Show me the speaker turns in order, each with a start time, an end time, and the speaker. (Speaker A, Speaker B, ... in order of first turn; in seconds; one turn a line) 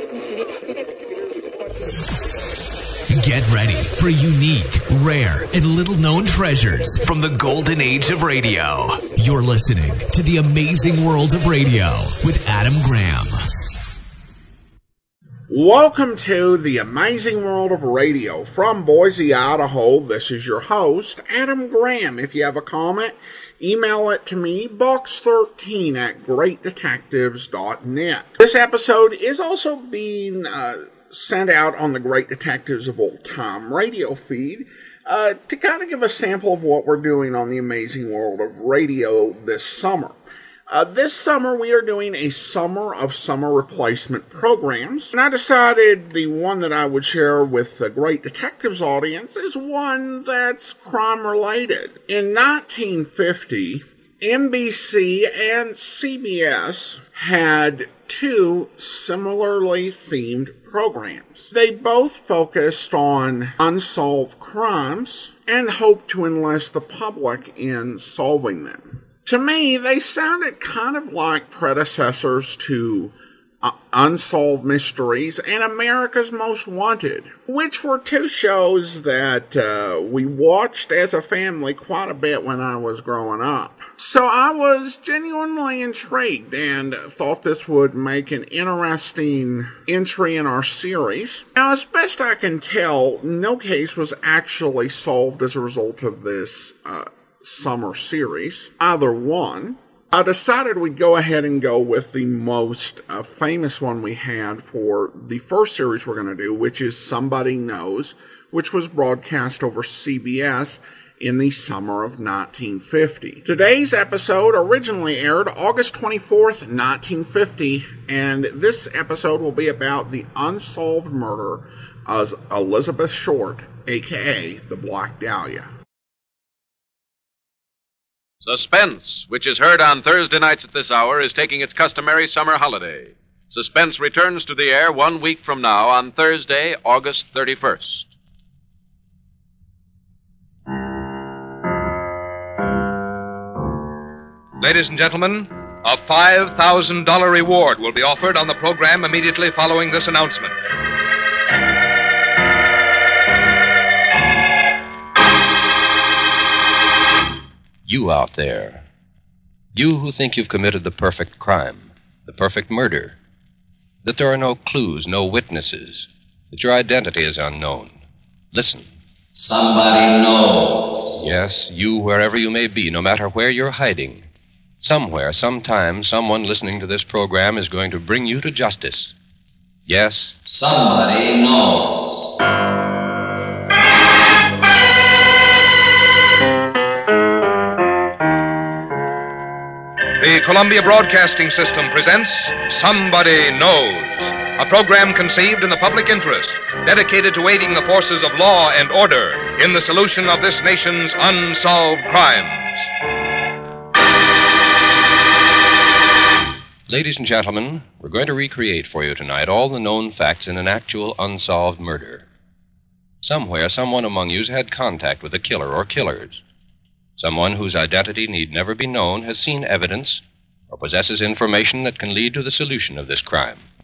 Speaker A: 3.1-13.4
Speaker B: 15.5-40.2
Speaker B: 40.7-125.7
Speaker C: 128.4-138.1
Speaker D: 144.6-150.6
Speaker E: 157.8-158.8
Speaker E: 159.7-163.2
Speaker E: 164.0-168.0
Speaker E: 168.5-168.9
Speaker F: 169.3-171.2
Speaker E: 171.2-174.3
Speaker E: 174.8-179.1
Speaker E: 179.8-180.3
Speaker F: 180.4-182.3
Speaker D: 190.2-202.9
Speaker E: 206.9-212.3
Speaker E: 213.2-216.4
Speaker E: 217.2-223.6